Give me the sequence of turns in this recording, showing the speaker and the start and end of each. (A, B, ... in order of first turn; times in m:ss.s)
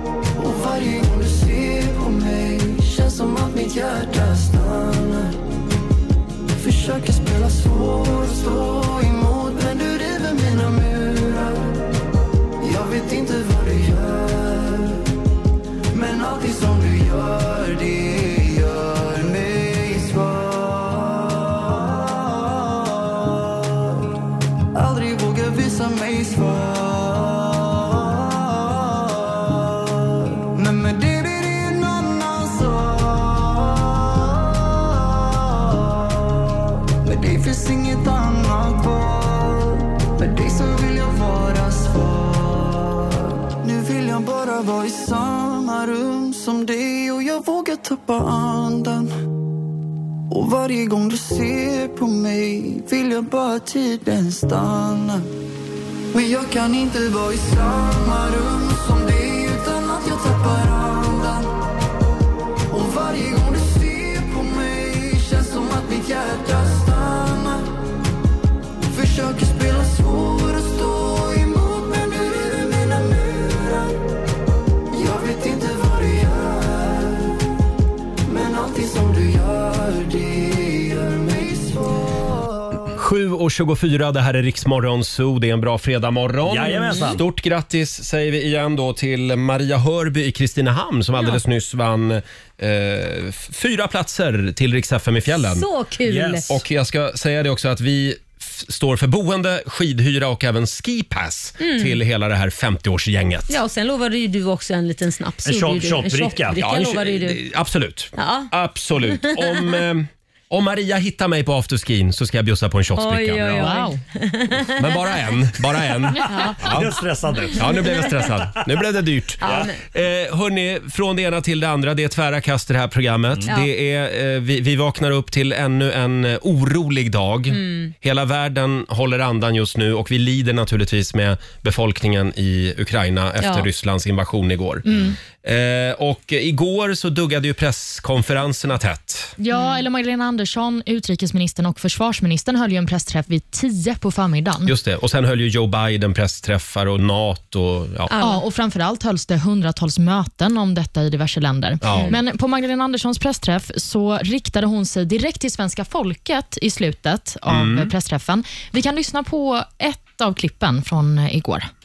0:00.3-0:05.4 A
0:06.6-0:11.8 A
0:12.6-0:15.1 A
0:15.9-0:24.0 A
0:24.7-0:49.1 A
0:50.3-0:55.2 A
0:56.1-1:01.5 A
1:02.7-1:07.7 A
1:08.9-1:14.0 A
1:14.9-1:17.4 A
1:18.2-1:22.9 A
1:23.0-1:35.6 B
1:26.4-1:27.2 C
1:35.4-1:36.5 D
1:36.0-1:36.5 C
1:36.5-1:43.6 B
1:41.6-1:42.0 D
1:43.5-1:47.4 D
1:45.4-1:46.6 C
1:46.5-1:53.7 B
1:48.2-1:48.5 D
1:49.1-1:49.8 D
1:52.9-1:55.0 D
1:53.5-1:54.0 E
1:54.8-1:56.9 B
1:56.2-1:58.4 C
1:56.2-1:56.6 D
1:57.5-2:19.3 B
1:59.4-1:59.7 C
1:59.4-1:59.8 D
2:07.5-2:07.9 D
2:13.4-2:13.7 D
2:19.4-2:24.7 E
2:24.6-2:28.1 B
2:28.1-2:28.4 D
2:28.2-2:41.7 E
2:31.8-2:32.2 B
2:31.9-2:32.2 D
2:37.5-2:37.9 B